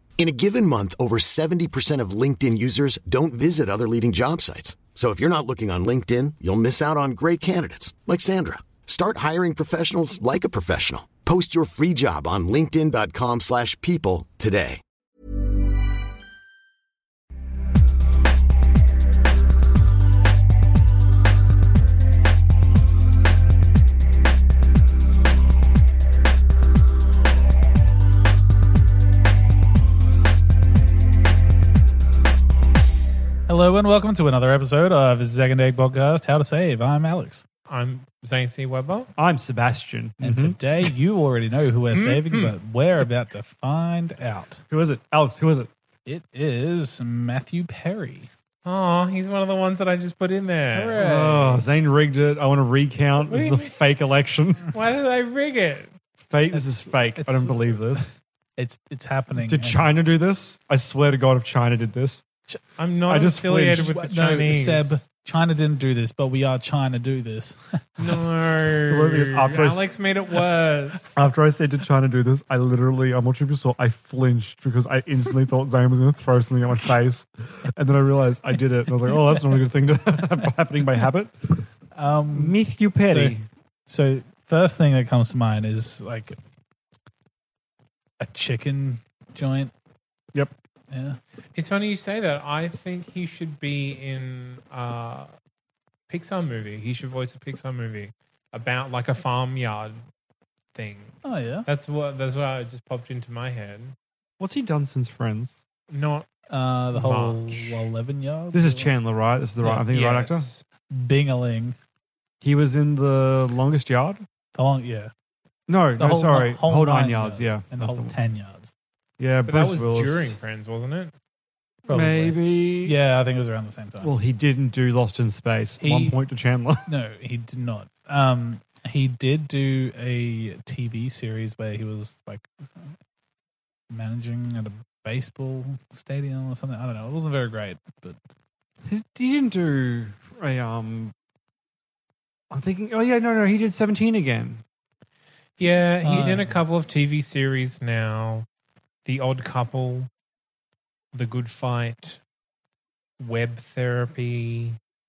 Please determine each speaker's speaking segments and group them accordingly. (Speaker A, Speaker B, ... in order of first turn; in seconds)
Speaker A: 0.2-14.8
Speaker B: 33.5-37.4, 40.2-44.6, 46.0-48.3, 50.7-51.6, 56.5-59.9, 63.8-67.8, 81.9-86.3, 88.2-89.7, 90.9-91.2, 101.2-101.7, 106.5-109.0, 110.9-111.8, 114.5-115.1, 116.0-118.7, 121.9-124.1, 125.8-126.2, 126.9-133.0, 133.9-138.2, 146.0-146.6
Speaker C: 37.7-39.1, 41.9-42.5, 48.6-51.0, 53.2-53.8, 54.7-56.0, 62.8-65.0, 68.0-71.2, 91.5-95.3, 96.1-100.0, 100.8-101.1, 101.7-104.0, 105.9-106.3, 106.9-107.9, 109.9-110.6, 119.5-121.2, 145.6-148.5, 149.1-150.1, 151.1-152.2, 153.2-154.8
Speaker D: 39.2-40.6, 44.7-45.7, 51.0-54.7, 56.2-58.1, 59.4-62.2, 63.0-63.9, 68.9-69.9, 71.2-81.7, 82.3-83.5, 104.4-105.6, 108.5-110.5, 112.4-114.2, 115.7-118.2, 119.2-120.4, 121.9-123.0, 124.0-126.9, 138.9-141.1, 142.5-144.6